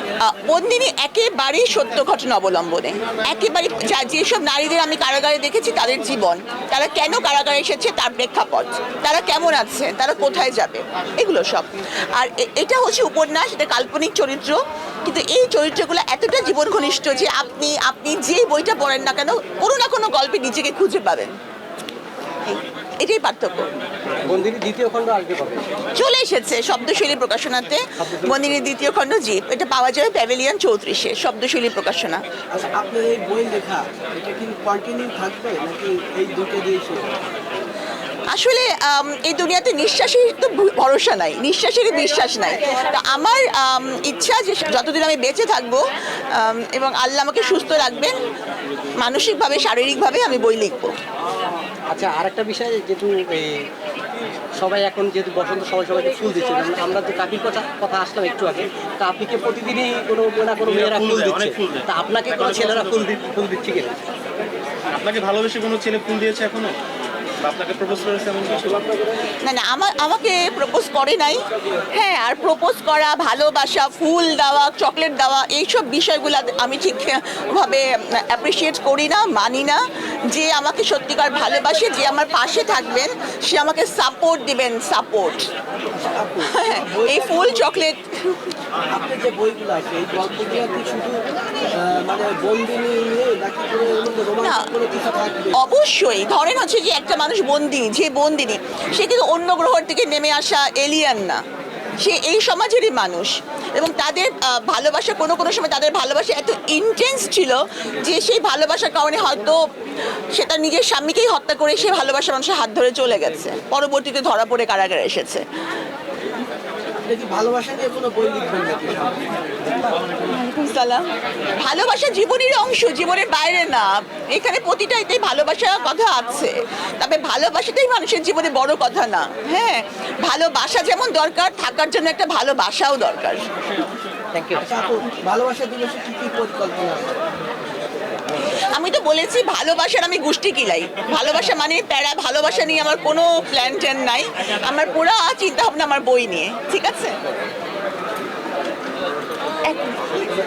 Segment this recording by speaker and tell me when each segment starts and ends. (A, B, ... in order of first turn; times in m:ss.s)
0:00.2-0:21.3 A
0:22.4-0:23.7 A
0:24.2-0:25.6 B
0:25.9-0:32.2 A
0:28.0-0:28.6 B
0:32.5-0:37.1 C
0:38.3-0:48.2 A
0:49.0-0:50.9 A
0:51.9-0:53.6 B
0:54.6-1:04.0 B
1:00.9-1:01.7 D
1:04.9-1:06.8 D
1:07.4-1:08.8 D
1:09.4-1:11.4 A
1:11.9-1:25.4 A
1:25.9-1:27.8 C
1:26.4-1:28.4 A
1:28.9-1:35.6 C
1:34.4-1:34.7 A
1:35.5-1:41.4 A
1:42.0-1:49.6 A
1:50.3-1:55.4 A
1:57.0-2:00.2 C
2:00.2-2:13.4 A
2:14.3-2:14.6 B
2:14.6-2:17.2 C
2:18.7-2:27.2 A
2:29.7-2:30.1 A